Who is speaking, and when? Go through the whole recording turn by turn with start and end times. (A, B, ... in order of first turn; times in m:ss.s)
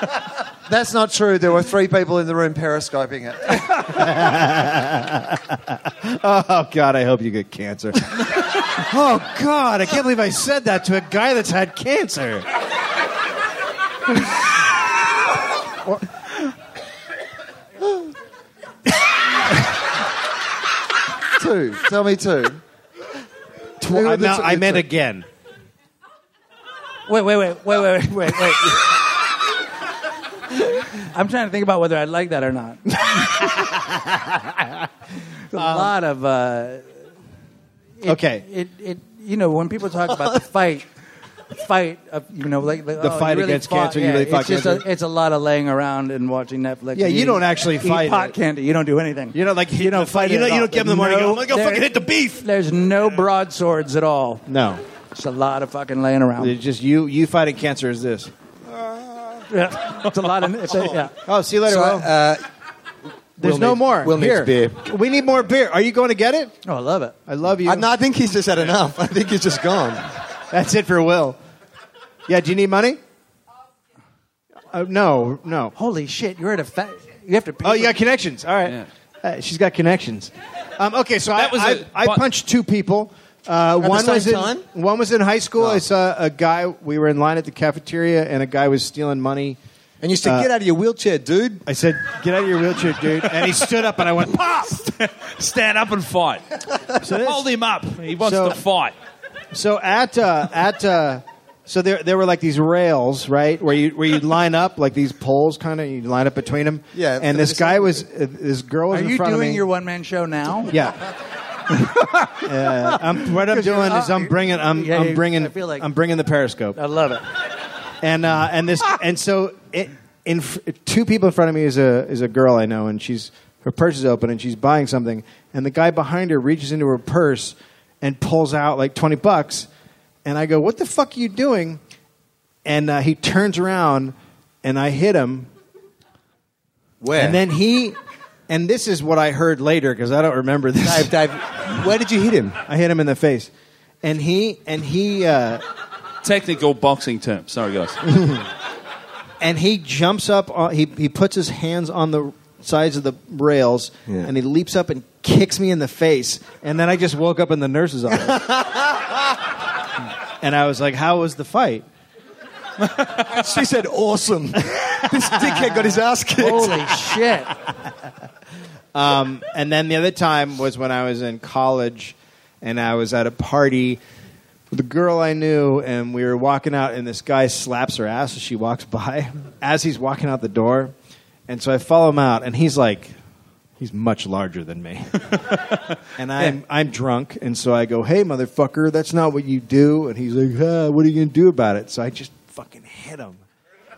0:00.7-0:03.8 A
0:03.8-0:12.5 B
0:21.4-0:22.6 A
0:23.8-0:25.3 B
0:23.9-0:24.9 A
0:27.1-0:29.0 C
0:30.9-0:33.4 C
0:33.0-0:34.7 B
0:35.5-0:36.9 C
0:35.5-0:35.9 B
0:38.0-0:40.9 C
0:38.0-0:38.4 B
0:41.5-0:54.4 C
0:43.0-0:44.8 B
0:46.9-0:48.4 B
0:49.3-0:52.4 B
0:54.5-0:54.8 B
0:55.1-0:56.6 C
0:56.4-0:58.3 B
0:59.5-1:01.1 C
1:01.2-1:02.1 B
1:01.6-1:02.4 D
1:03.4-1:04.8 D
1:03.4-1:06.6 B
1:06.6-1:07.1 C
1:07.3-1:07.9 B
1:07.6-1:10.0 D
1:10.5-1:11.4 B
1:12.3-1:13.0 B
1:14.7-1:15.7 B
1:15.8-1:17.9 C
1:17.6-1:29.6 B
1:21.3-1:22.2 E
1:23.8-1:24.6 D
1:30.0-1:31.6 D
1:30.2-1:30.5 B
1:31.6-1:34.8 B
1:34.8-1:36.4 E
1:37.0-1:37.5 B
1:37.0-1:38.9 E
1:38.2-1:38.6 B
1:39.5-1:49.6 B
1:46.9-1:48.0 D
1:48.9-1:50.7 C
1:50.7-1:51.0 B
1:51.7-1:55.9 C
1:52.4-1:56.8 B
1:56.7-1:57.2 C
1:58.0-2:09.7 B
2:10.2-2:11.8 B
2:12.6-2:15.5 B
2:17.0-2:17.4 D
2:17.2-2:18.0 B
2:18.5-2:21.1 B
2:20.8-2:22.6 D
2:22.6-2:23.5 B
2:24.0-2:25.6 B
2:26.2-2:28.0 E
2:29.4-2:38.5 B
2:38.2-2:39.0 D
2:40.4-2:41.9 B
2:43.2-2:47.0 D
2:45.1-2:45.6 B
2:46.4-2:47.5 C
2:48.9-2:54.0 B
2:54.7-3:00.9 B
3:01.5-3:03.1 B
3:03.8-3:05.4 B
3:06.2-3:13.4 B